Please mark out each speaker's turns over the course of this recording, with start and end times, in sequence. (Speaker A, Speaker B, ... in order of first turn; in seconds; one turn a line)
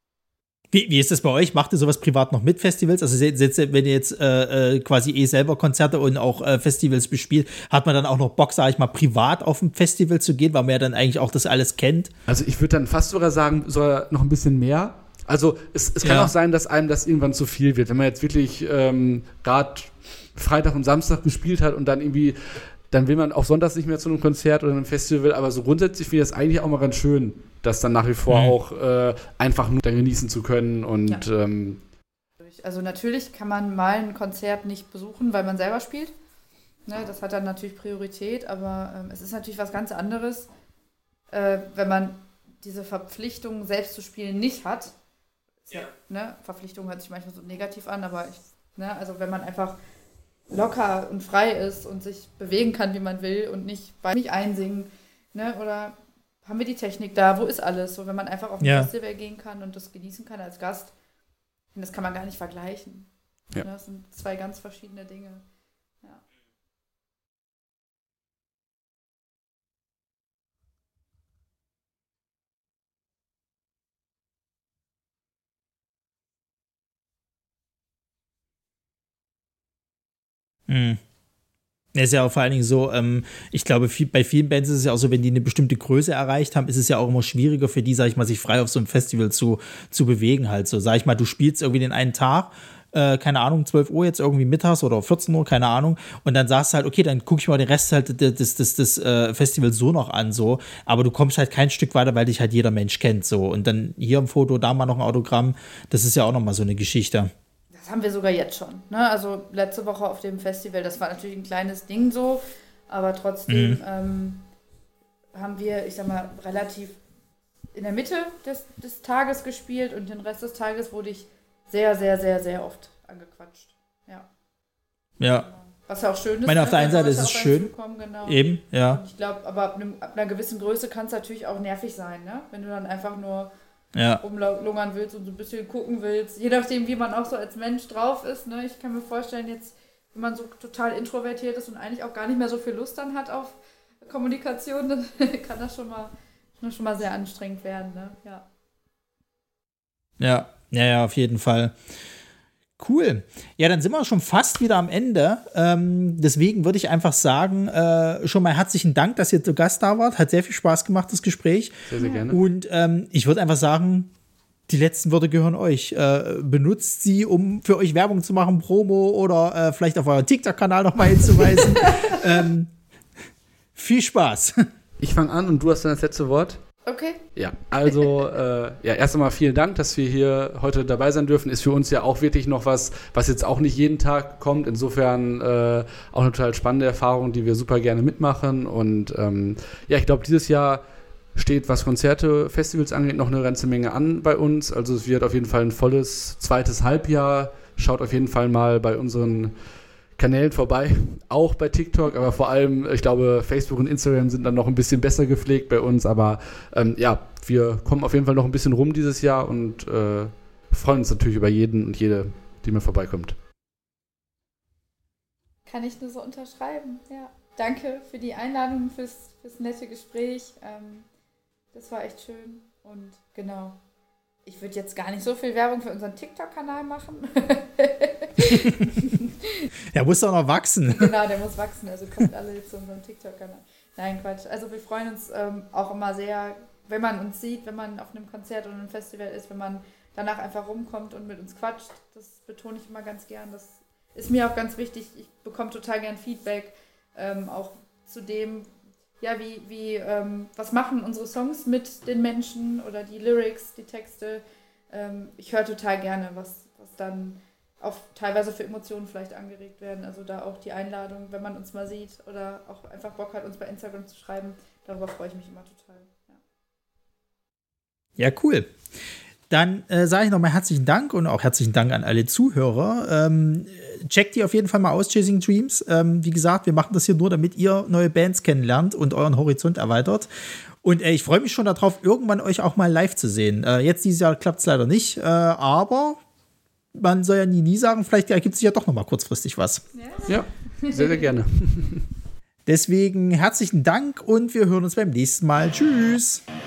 Speaker A: 0.7-12.1
Speaker B: 12.3-31.8
Speaker A: 16.0-16.3
Speaker A: 28.3-28.6
Speaker C: 32.4-36.1
Speaker C: 36.9-40.5
Speaker C: 41.3-44.9
Speaker C: 45.6-49.8
Speaker C: 50.5-60.9
Speaker A: 58.6-58.9
Speaker C: 61.7-65.4
Speaker A: 80.7-81.0
Speaker A: 81.9-107.3
Speaker C: 107.7-114.4
Speaker A: 113.5-113.8
Speaker C: 115.3-117.0
Speaker C: 117.7-124.3
Speaker A: 125.2-125.5
Speaker C: 125.3-133.5
Speaker A: 126.5-127.7
Speaker A: 128.2-129.0
Speaker A: 133.9-134.2
Speaker C: 134.2-148.4
Speaker A: 150.2-151.8
Speaker A: 152.8-164.1
Speaker B: 161.9-162.4
Speaker C: 162.0-162.3
Speaker A: 164.7-172.7
Speaker C: 171.5-172.2
Speaker A: 173.8-174.7
Speaker B: 175.0-176.6
Speaker C: 176.8-177.2
Speaker B: 177.3-190.8
Speaker C: 177.9-178.2
Speaker B: 191.3-199.6
Speaker B: 200.2-213.3
Speaker C: 215.7-221.1
Speaker C: 221.7-223.8
Speaker C: 224.4-229.7
Speaker A: 229.9-231.2
Speaker C: 230.9-248.7
Speaker C: 249.2-266.4
Speaker A: 268.2-268.7
Speaker A: 269.5-280.3
Speaker A: 280.8-286.2
Speaker A: 286.9-289.8
Speaker C: 289.9-291.3
Speaker B: 290.3-292.1
Speaker A: 292.6-296.4